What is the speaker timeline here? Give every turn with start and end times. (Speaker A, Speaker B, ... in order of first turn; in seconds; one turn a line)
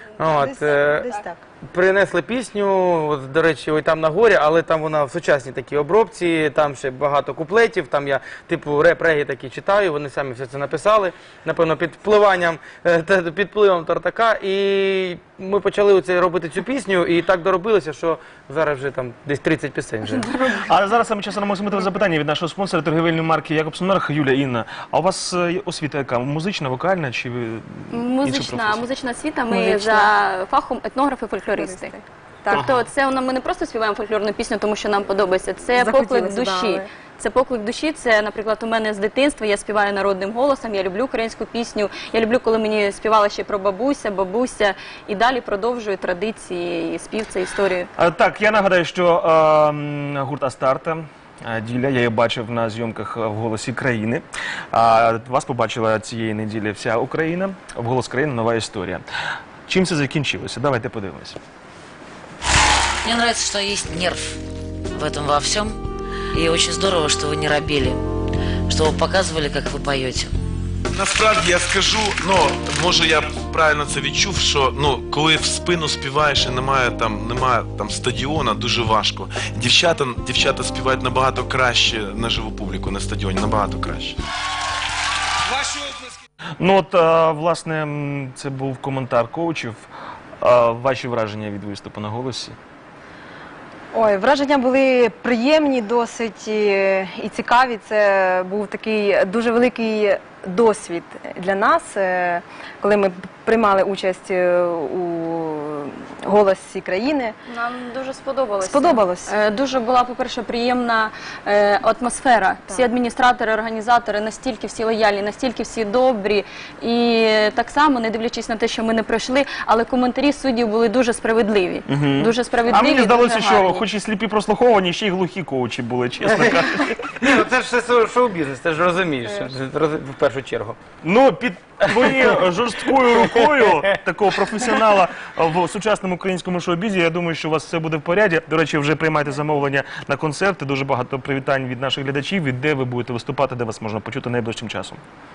Speaker A: 0.2-1.1
Speaker B: 0.3-1.4
Speaker A: 1.7-20.3
Speaker C: 20.1-20.6
Speaker D: 20.6-28.8
Speaker C: 27.9-47.9
Speaker B: 29.5-30.1
Speaker B: 31.6-31.9
Speaker D: 32.5-32.9
Speaker B: 35.8-36.9
Speaker D: 48.0-59.0
Speaker D: 59.7-61.4
Speaker E: 63.0-64.3
Speaker E: 64.9-65.8
Speaker E: 66.3-68.0
Speaker E: 68.7-70.3
Speaker F: 70.9-84.2
Speaker F: 85.6-85.9
Speaker D: 86.6-89.9
Speaker D: 90.4-92.6
Speaker B: 93.9-107.4
Speaker C: 107.5-123.8
Speaker B: 108.6-109.3
Speaker D: 121.9-127.3
Speaker A: 127.2-130.8
Speaker D: 131.0-145.0
Speaker A: 131.9-132.3
Speaker A: 133.2-133.8